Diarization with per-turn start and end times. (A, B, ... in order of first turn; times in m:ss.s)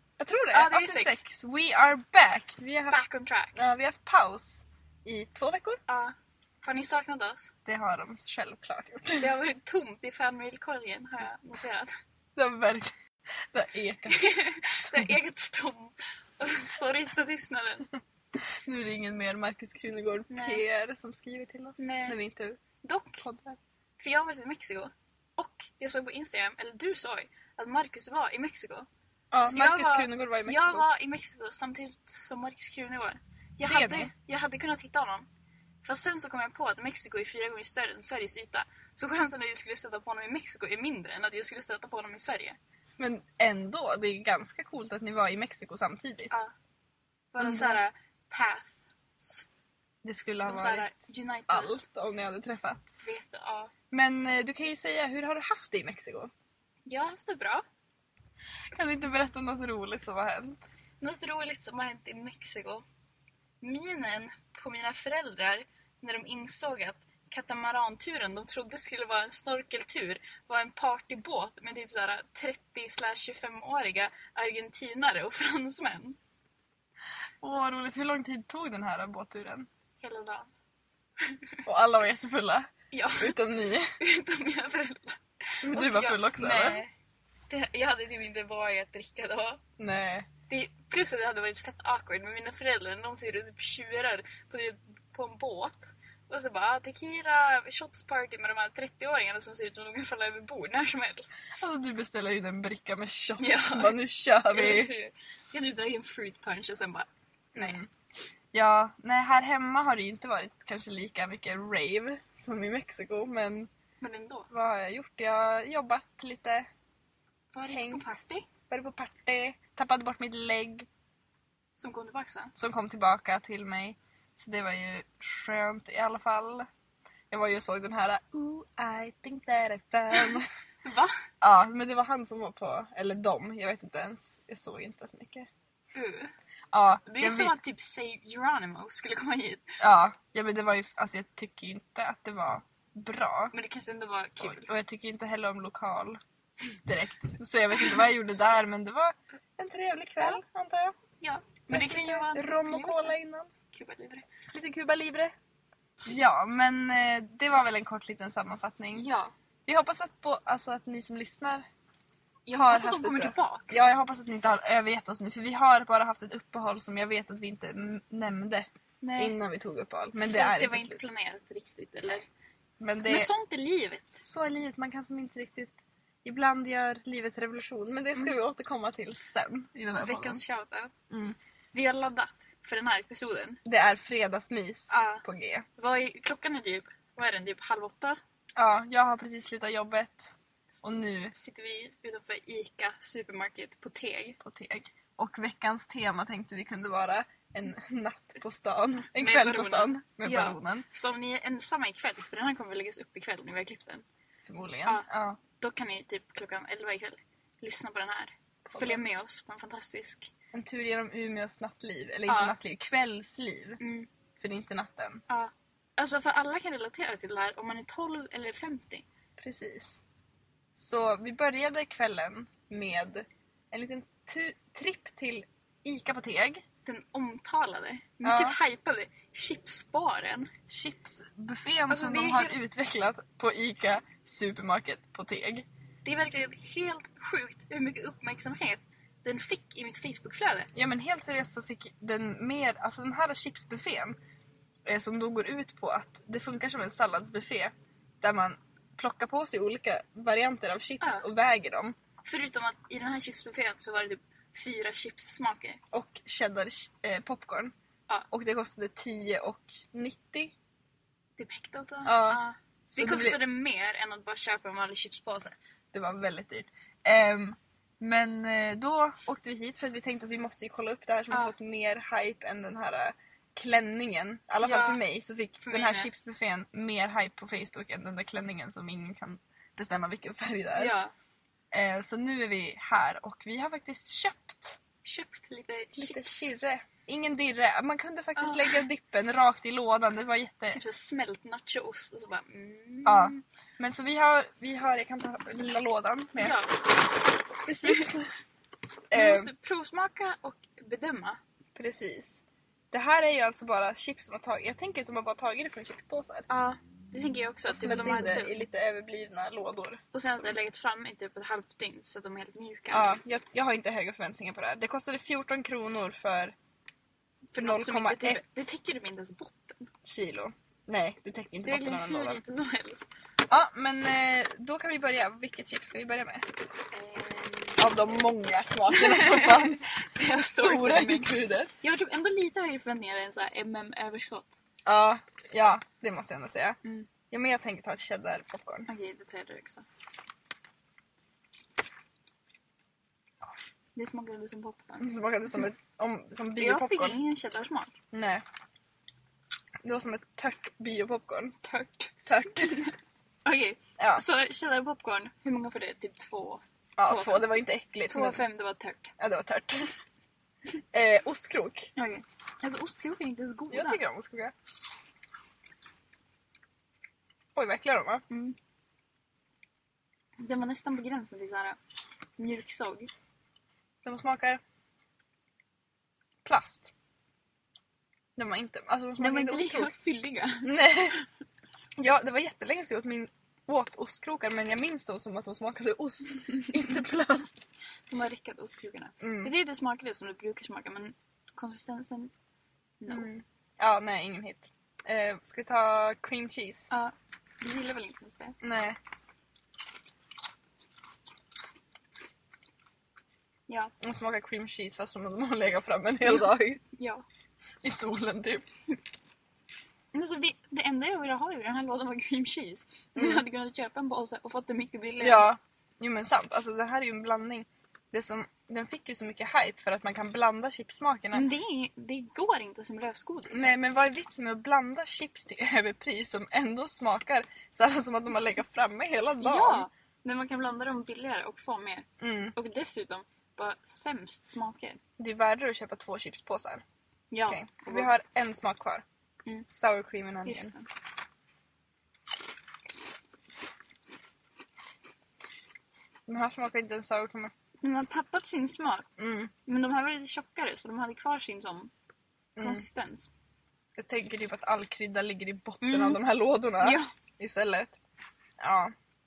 0:00.2-0:03.0 A
0:00.5-0:01.2 B
0:02.9-0:03.7 B
0:03.5-0:05.8 A
0:05.9-0:07.5 B
0:07.6-0:09.3 A
0:09.2-0:11.9 B
0:12.4-0:12.9 A
0:13.5-0:14.3 A
0:14.1-0:17.9 B
0:18.4-0:22.6 A
0:20.3-0:20.6 B
0:21.8-0:22.2 B
0:22.8-0:23.2 B
0:23.2-0:23.6 A
0:24.0-0:28.9 B
0:29.3-0:30.8 A
0:29.4-0:35.3 B
0:33.6-0:34.1 A
0:35.8-0:42.6 B
0:43.0-0:46.3 A
0:47.3-0:49.5 B
0:47.4-0:47.8 A
0:50.0-0:50.9 A
0:50.4-0:51.8 B
0:51.5-0:53.1 A
0:53.0-0:53.7 B
0:53.9-0:56.3 A
0:56.9-0:57.6 B
0:58.7-1:00.6 A
1:01.0-1:02.8 B
1:03.6-1:16.2 B
1:17.4-1:19.7 A
1:20.0-1:20.5 B
1:21.2-1:21.5 B
1:21.6-1:23.9 A
1:22.9-1:23.4 B
1:24.0-1:26.9 B
1:25.6-1:26.8 A
1:27.5-1:29.6 B
1:29.8-1:30.3 A
1:30.5-1:41.5 B
1:41.6-1:44.9 A
1:43.4-1:44.0 B
1:44.5-1:47.8 B
1:47.5-1:47.9 A
1:48.5-1:53.7 A
1:54.0-1:54.5 B
1:54.5-1:56.7 A
1:57.5-1:58.5 B
1:57.7-1:58.2 A
1:58.7-2:00.9 A
2:01.8-2:02.5 B
2:02.6-2:06.7 A
2:07.3-2:10.4 A
2:10.8-2:11.1 B
2:11.4-2:15.5 A
2:15.9-2:16.3 B
2:16.7-2:17.5 A
2:17.0-2:19.6 B
2:19.8-2:23.5 A
2:23.5-2:24.7 B
2:24.4-2:26.2 A
2:26.8-2:30.9 A
2:31.2-2:33.2 B
2:31.7-2:33.5 A
2:33.7-2:34.2 B
2:34.5-2:35.3 A
2:36.0-2:39.1 A
2:39.0-2:39.3 B
2:39.7-2:41.6 A
2:42.4-2:43.8 B
2:42.5-2:48.7 A
2:49.0-2:49.4 B
2:49.2-2:51.0 A
2:50.2-2:52.3 B
2:52.8-2:53.3 A
2:53.0-2:54.2 B
2:54.2-3:00.4 A
2:59.9-3:00.9 B
3:01.1-3:01.4 A
3:01.7-3:03.6 B
3:03.6-3:05.6 A
3:04.9-3:05.2 B
3:05.8-3:08.2 B
3:08.6-3:11.3 A
3:11.3-3:14.4 B
3:14.4-3:20.8 A
3:19.1-3:24.0 B
3:24.4-3:25.4 A
3:24.8-3:30.3 B
3:28.6-3:29.0 A
3:30.5-3:33.8 A
3:32.3-3:32.6 B
3:33.8-3:34.1 B
3:34.4-3:35.2 A
3:35.3-3:39.0 B
3:39.4-3:40.0 A
3:40.7-3:46.6 A
3:46.8-3:50.5 B
3:48.2-3:48.6 A
3:50.7-3:55.6 A
3:51.9-3:52.6 B
3:56.0-4:00.7 B
4:00.7-4:04.2 A
4:04.9-4:11.9 A
4:12.2-4:15.8 B
4:15.9-4:17.7 A
4:18.3-4:20.5 A
4:21.4-4:25.6 B
4:22.0-4:23.4 A
4:25.9-4:40.9 A
4:34.6-4:35.0 B
4:35.6-4:36.1 B
4:40.7-4:41.1 B
4:41.7-4:44.8 A
4:45.0-4:46.5 B
4:46.0-4:50.8 A
4:48.4-4:48.8 B
4:50.7-4:53.4 B
4:53.0-4:56.6 A
4:56.4-4:56.8 B
4:57.6-4:58.3 A
4:57.8-4:58.1 B
4:59.1-4:59.5 A
4:59.1-5:01.4 B
5:01.7-5:06.5 A
5:06.5-5:08.5 B
5:07.7-5:10.5 A
5:10.1-5:13.1 B
5:12.9-5:16.5 A
5:17.5-5:19.9 B
5:17.6-5:18.4 A
5:20.0-5:22.4 A
5:21.6-5:23.1 B
5:23.5-5:26.4 A
5:26.9-5:27.9 B
5:27.8-5:29.9 A
5:28.9-5:34.5 B
5:30.6-5:31.7 A
5:34.8-5:36.8 A
5:36.8-5:37.1 B
5:37.3-5:38.9 A
5:38.9-5:39.8 B
5:44.0-5:45.1 B
5:45.0-5:47.2 A
5:46.6-5:47.9 B
5:48.1-5:48.4 A
5:49.8-5:51.6 A
5:51.6-5:52.9 B
5:52.3-5:52.7 A
5:53.4-5:57.4 B
5:54.0-5:54.2 A
5:57.0-5:58.4 A
5:58.1-5:59.1 B
5:59.2-5:59.9 A
6:00.9-6:01.9 A
6:02.0-6:04.0 B
6:03.7-6:04.5 A
6:07.5-6:08.2 A
6:08.3-6:08.6 B
6:10.4-6:11.8 B
6:12.4-6:13.1 B
6:14.0-6:14.6 A
6:16.4-6:16.9 A
6:18.4-6:19.9 A
6:19.2-6:20.7 B
6:20.6-6:21.2 A
6:22.0-6:27.6 A
6:28.1-6:32.3 B
6:29.2-6:29.5 A
6:33.0-6:33.3 B
6:33.1-6:36.9 A
6:36.9-6:38.5 B
6:38.6-6:39.0 A
6:43.7-6:43.9 B
6:44.0-6:46.8 A
6:46.2-6:47.2 B
6:47.8-6:48.6 A
6:50.1-6:55.5 B
6:53.2-6:53.4 A
6:55.2-7:01.5 A
7:01.3-7:03.7 B
7:03.5-7:09.8 A
7:09.4-7:15.0 B
7:12.2-7:12.5 A
7:15.2-7:16.8 A
7:17.3-7:18.1 B
7:17.5-7:19.0 A
7:19.7-7:20.7 A
7:20.4-7:20.9 B
7:26.3-7:27.5 A
7:27.8-7:29.0 B
7:29.2-7:29.5 A
7:29.6-7:31.9 B
7:32.6-7:32.8 A
7:32.6-7:33.3 B
7:34.0-7:38.0 A
7:35.8-7:36.2 B
7:36.8-7:37.1 B
7:38.6-7:38.9 A